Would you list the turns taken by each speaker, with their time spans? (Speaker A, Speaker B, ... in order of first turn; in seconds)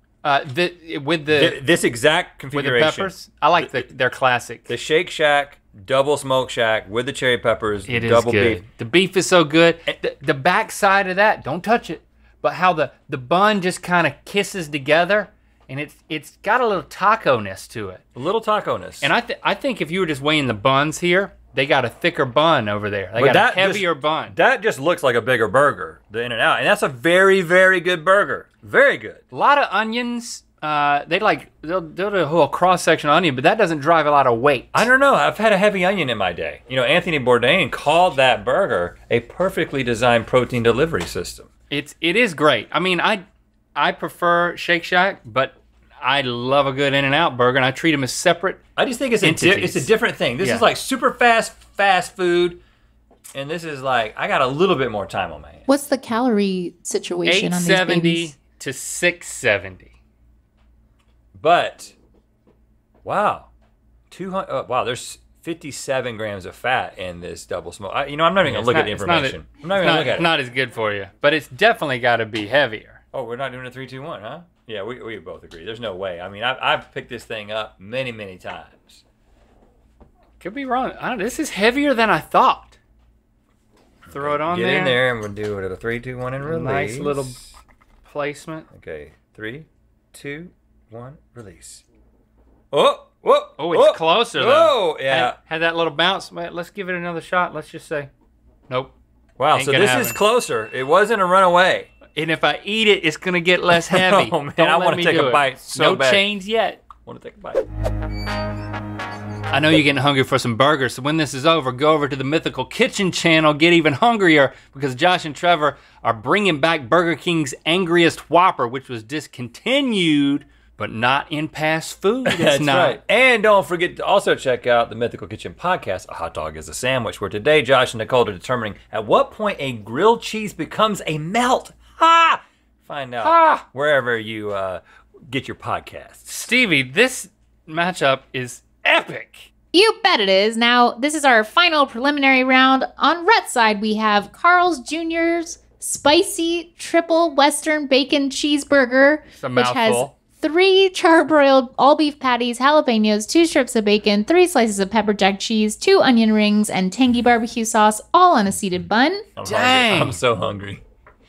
Speaker A: 0.2-1.6, 2.5-4.7, 7.9-18.0, 19.0-24.4, 29.3-34.9, 41.7-43.2, 43.8-48.6, 49.2-49.9, 50.4-50.7, 57.2-59.9, 68.4-73.0, 80.4-82.8, 84.1-85.0, 86.4-87.4, 88.0-88.7, 93.6-98.1, 98.7-98.9, 99.5-100.2, 102.1-106.8, 109.5-123.0, 133.2-133.6, 136.3-139.5, 149.4-150.1, 159.4-160.2
Speaker B: 1.3-3.7, 4.7-8.6, 18.1-19.1, 23.2-29.2, 34.7-41.5, 48.8-52.6, 53.3-55.7, 61.4-61.9, 63.0-63.5, 64.1-70.3, 73.1-79.0, 84.1-87.4, 88.7-91.8, 92.7-95.4, 99.4-101.9, 103.7-106.3, 107.0-107.6, 122.3-136.5, 159.4-160.8
Speaker C: 55.7-58.3, 139.7-159.3